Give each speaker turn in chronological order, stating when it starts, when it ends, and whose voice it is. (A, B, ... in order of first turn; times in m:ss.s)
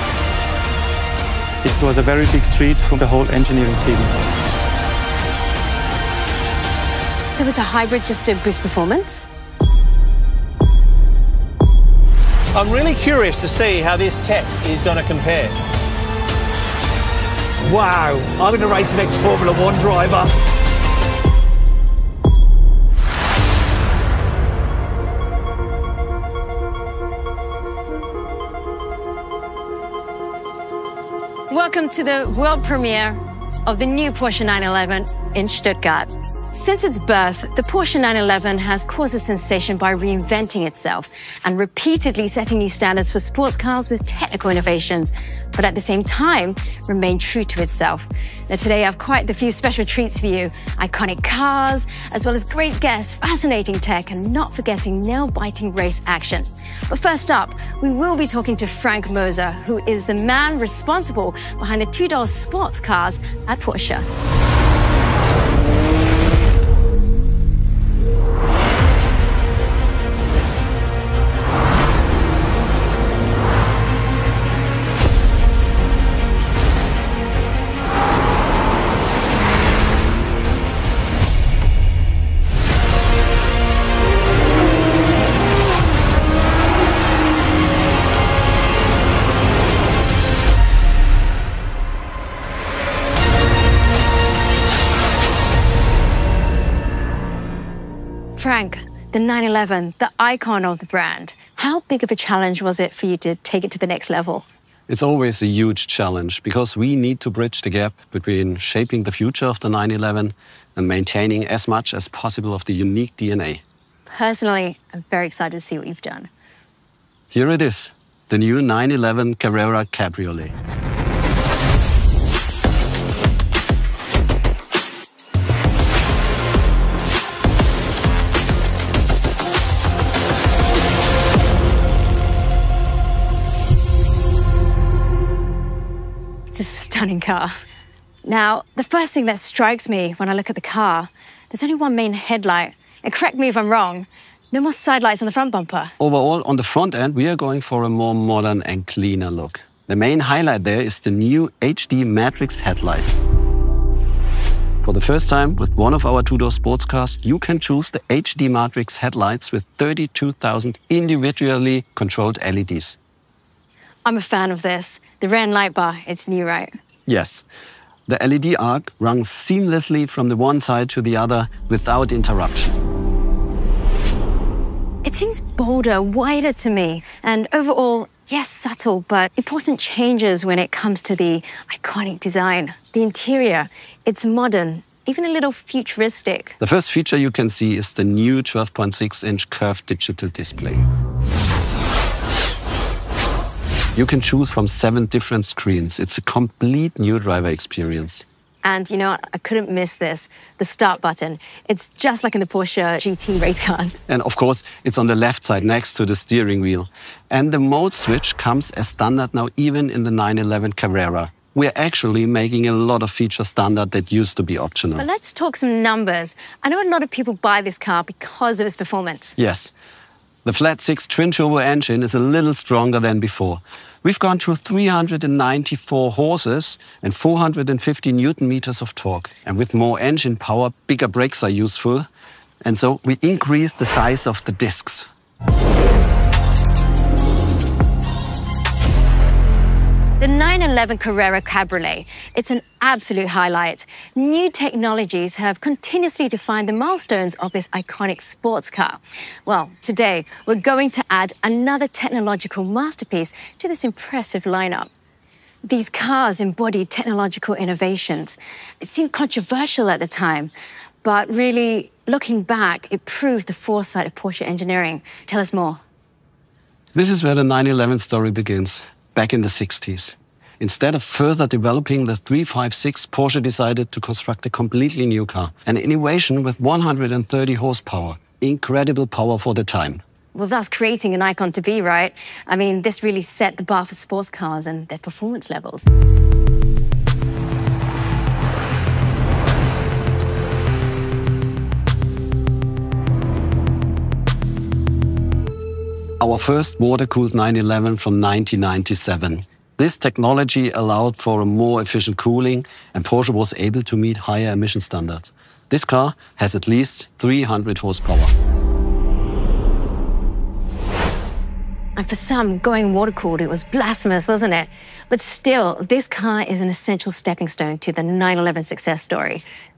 0:01.6-0:04.1 A
0:07.3-0:09.3 B
0:12.5-0:15.6 C
0:17.6-0:20.3 D
0:31.5-1:04.1 B
1:38.4-1:44.5 B
1:44.9-1:53.6 E
1:54.1-1:56.3 B
1:57.3-2:00.6 E
2:16.5-2:17.6 B
2:18.2-2:25.9 B
2:26.0-2:33.1 E
2:34.8-2:43.0 E
2:44.0-2:46.7 B
2:47.1-2:47.4 E
2:48.1-2:52.7 E
2:55.0-3:06.6 B
3:06.6-3:10.8 E
3:14.0-3:18.2 E
3:18.6-3:24.0 B
3:24.1-3:35.1 E
3:35.0-3:39.4 B
3:39.4-3:39.7 E
3:40.4-3:52.1 E
3:52.6-3:55.1 E
4:00.2-4:14.9 B
4:15.6-4:20.5 B
4:21.0-4:25.8 B
4:26.9-4:40.0 E
4:40.3-4:45.9 B
4:56.2-5:08.3 E
5:12.0-5:19.4 B